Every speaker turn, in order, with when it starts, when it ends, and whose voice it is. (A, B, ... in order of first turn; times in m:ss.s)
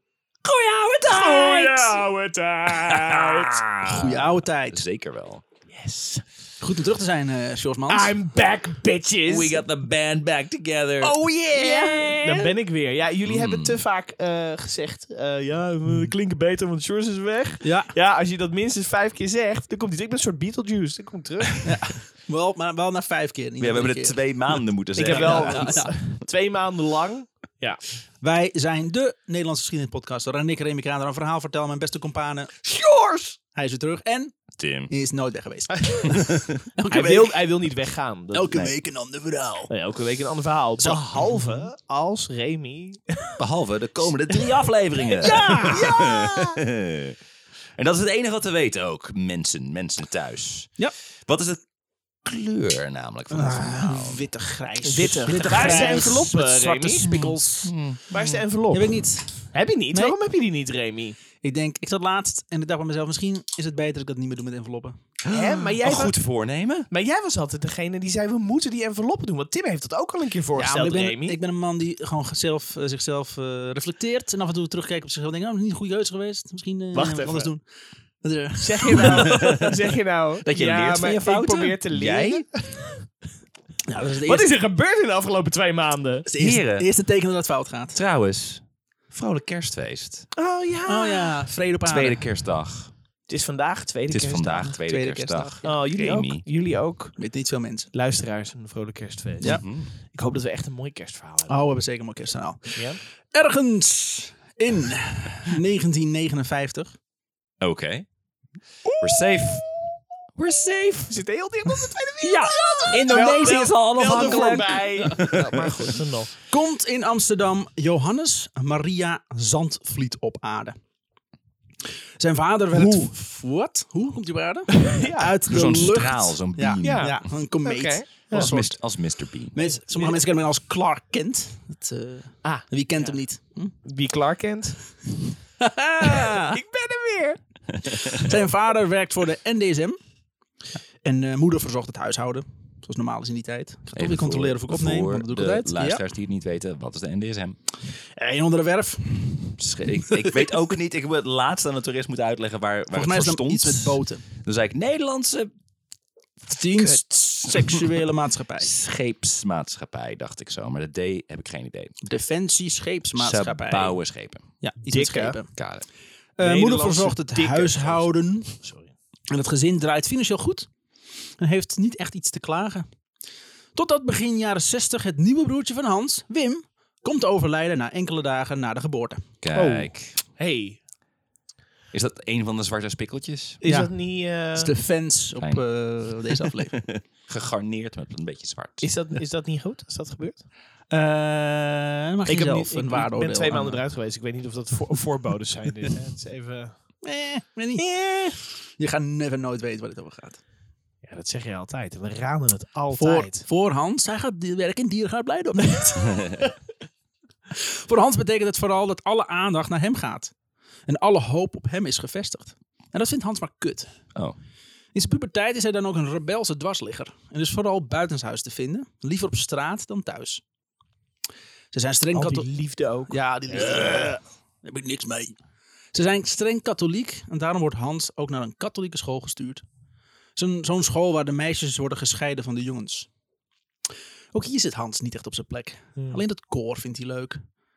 0:00.5-0:01.9 A
0:01.1-0:03.7 B
0:01.1-0:01.8 C
0:02.7-0:05.4 C
0:03.9-0:04.8 A
0:05.7-0:06.2 B
0:06.6-0:08.2 A
0:07.9-0:09.6 B
0:09.3-0:12.5 C
0:11.0-0:21.9 B
0:11.2-0:12.4 A
0:13.3-0:13.8 C
0:17.6-0:17.9 A
0:21.6-0:24.2 A
0:23.6-0:26.1 C
0:25.0-0:27.8 B
0:25.0-0:25.9 A
0:28.2-0:32.5 A
0:32.6-0:33.4 B
0:33.6-0:34.4 A
0:34.6-0:34.9 C
0:34.9-0:37.4 A
0:36.9-0:38.7 B
0:38.3-0:39.7 A
0:39.7-0:43.3 B
0:43.4-0:47.2 C
0:45.2-0:46.1 B
0:45.2-0:46.4 A
0:47.8-0:51.6 C
0:52.2-0:54.3 C
0:53.3-0:57.7 A
0:54.8-0:57.1 B
0:55.5-0:55.9 C
0:57.1-0:58.4 C
0:58.1-0:59.0 B
0:58.7-1:00.2 A
0:59.5-1:01.2 B
1:01.4-1:05.0 A
1:05.2-1:06.9 C
1:05.3-1:06.2 B
1:06.9-1:11.4 B
1:10.6-1:17.6 A
1:16.9-1:17.5 B
1:18.2-1:19.5 A
1:18.6-1:22.5 B
1:19.0-1:19.8 C
1:20.4-1:22.5 C
1:23.8-1:24.5 A
1:24.2-1:26.3 B
1:26.3-1:28.0 A
1:26.4-1:26.8 C
1:27.9-1:30.3 C
1:30.4-1:31.4 B
1:30.9-1:32.2 A
1:31.8-1:32.9 C
1:33.3-1:34.8 B
1:34.1-1:36.4 C
1:34.8-1:35.7 A
1:35.6-1:37.2 B
1:37.2-1:37.9 A
1:37.9-1:41.6 B
1:39.5-1:39.9 C
1:41.5-1:46.9 A
1:42.8-1:43.0 B
1:47.6-1:48.1 C
1:49.0-1:49.6 C
1:50.4-1:51.2 C
1:51.1-1:56.3 B
1:52.2-1:56.0 C
1:54.1-1:55.2 A
1:56.5-2:00.8 A
2:02.2-2:08.8 A
2:04.8-2:05.4 B
2:05.5-2:07.2 C
2:06.8-2:08.5 B
2:08.3-2:09.6 C
2:09.5-2:13.7 A
2:12.4-2:13.2 B
2:13.8-2:14.8 B
2:15.6-2:16.6 A
2:16.0-2:17.4 B
2:17.9-2:20.0 A
2:21.0-2:26.0 A
2:24.0-2:27.6 C
2:28.2-2:30.4 A
2:29.6-2:35.5 C
2:32.9-2:34.2 A
2:36.5-2:38.7 A
2:36.8-2:37.9 C
2:38.6-2:42.0 C
2:42.0-2:44.0 A
2:43.2-2:44.5 C
2:44.6-2:45.5 A
2:44.9-2:45.4 B
2:45.6-2:45.9 C
2:46.4-2:48.6 A
2:46.4-2:48.9 B
2:49.3-2:50.7 A
2:51.4-2:52.9 A
2:53.8-2:59.2 A
2:59.4-3:00.2 C
2:59.5-3:00.8 B
3:01.9-3:03.6 C
3:03.6-3:04.7 B
3:03.6-3:03.9 A
3:04.6-3:06.8 A
3:05.4-3:05.6 C
3:06.7-3:08.9 C
3:08.8-3:10.5 B
3:10.9-3:13.8 A
3:12.3-3:16.8 B
3:17.0-3:17.8 A
3:17.8-3:18.4 B
3:18.8-3:20.4 A
3:21.0-3:23.5 B
3:22.9-3:26.5 A
3:27.5-3:30.3 A
3:30.9-3:33.9 A
3:34.9-3:40.4 A
3:41.7-3:42.5 A
3:42.1-3:44.2 B
3:43.1-3:45.4 A
3:45.9-3:49.6 A
3:50.4-3:53.1 A
3:54.3-3:57.4 A